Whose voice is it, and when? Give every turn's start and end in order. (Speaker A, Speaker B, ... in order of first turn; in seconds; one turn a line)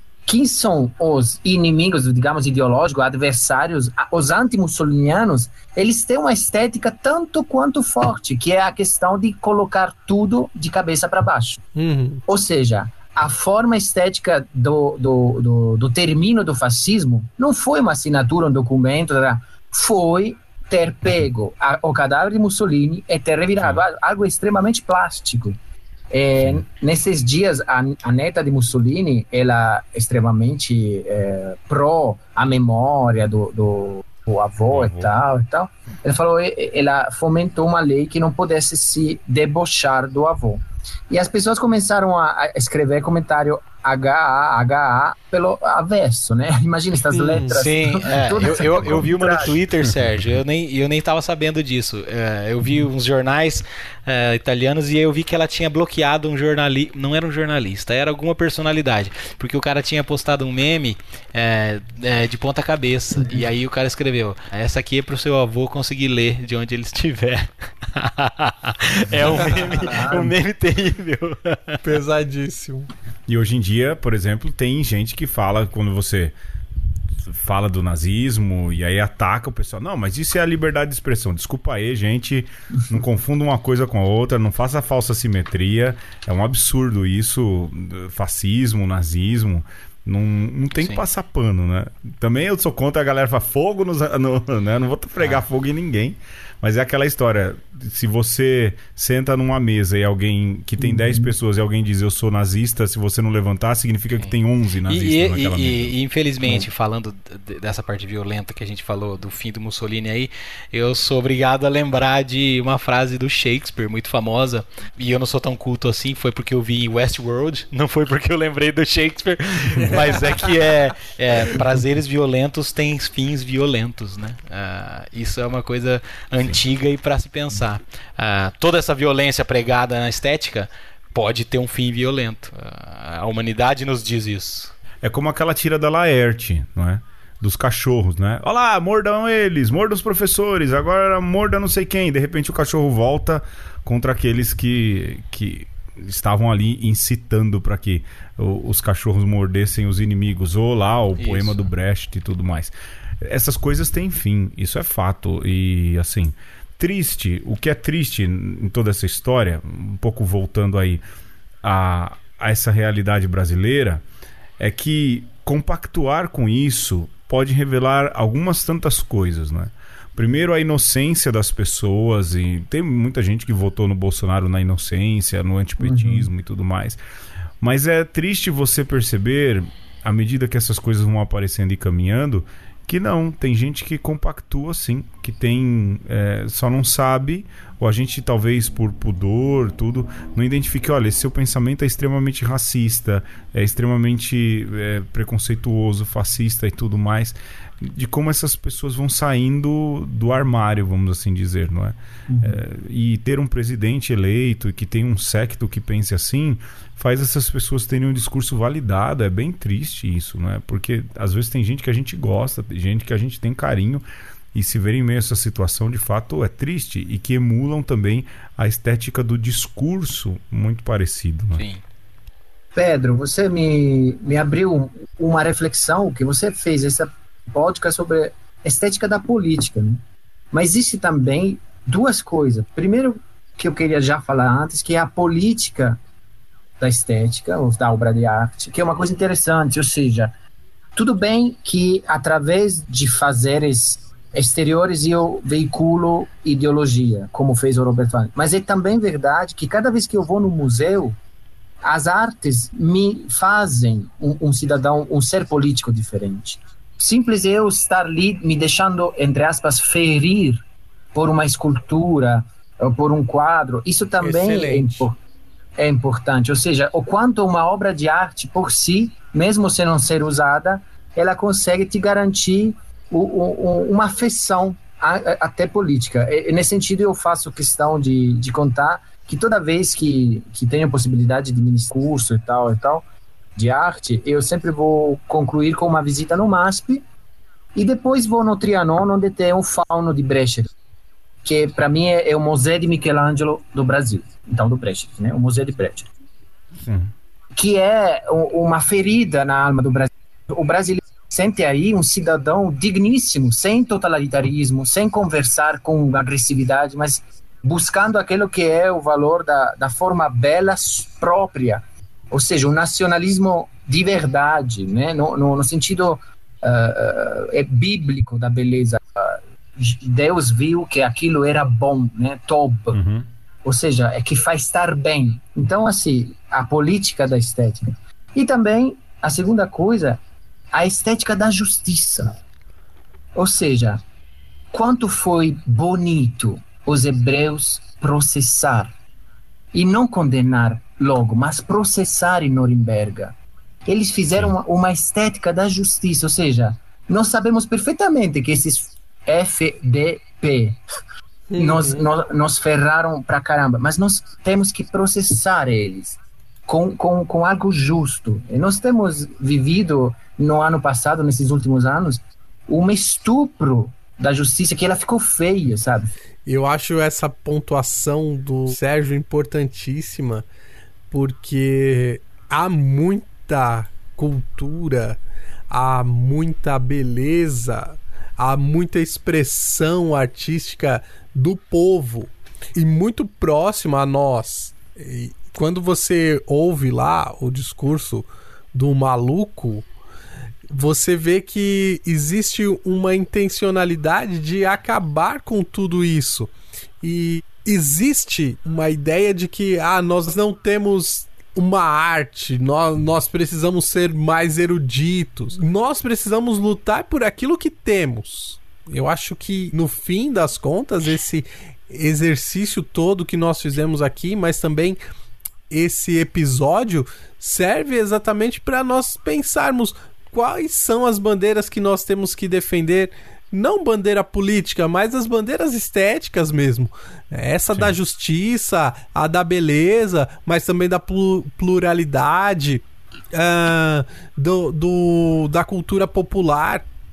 Speaker A: 0.3-11.7
Speaker B: 11.8-12.2
Speaker A: 12.3-25.6
Speaker A: 26.1-49.6
Speaker C: 34.7-35.1
Speaker B: 47.1-47.6
Speaker D: 47.5-71.8
Speaker C: 48.6-49.9
Speaker A: 69.5-70.3
Speaker B: 71.8-72.9
Speaker C: 73.3-76.3
Speaker C: 77.3-105.9
Speaker A: 100.8-101.3
Speaker D: 104.2-134.7
Speaker C: 135.0-161.0
Speaker D: 151.2-151.7
Speaker C: 161.6-164.0
Speaker C: 164.6-177.0
Speaker A: 175.8-176.3
Speaker C: 177.6-221.7
Speaker A: 202.3-202.6
Speaker D: 221.6-221.8
Speaker A: 222.8-236.0
Speaker A: 236.8-240.3
Speaker A: 241.0-251.2
Speaker A: 251.8-260.6
Speaker A: 261.1-265.2
Speaker B: 264.2-265.1
Speaker A: 265.8-283.0
Speaker A: 283.6-287.1
Speaker A: 287.8-290.7
Speaker A: 291.4-296.1
Speaker C: 296.8-297.1
Speaker A: 297.6-323.0
Speaker C: 322.9-323.3
Speaker A: 323.6-330.2
Speaker A: 330.7-332.4
Speaker A: 333.4-334.0
Speaker A: 334.7-338.9
Speaker A: 339.7-343.4
Speaker A: 343.9-350.8
Speaker B: 351.5-352.1
Speaker A: 351.6-366.1
Speaker B: 366.5-370.5
Speaker B: 371.1-389.9
Speaker B: 390.7-415.0
Speaker B: 415.7-436.9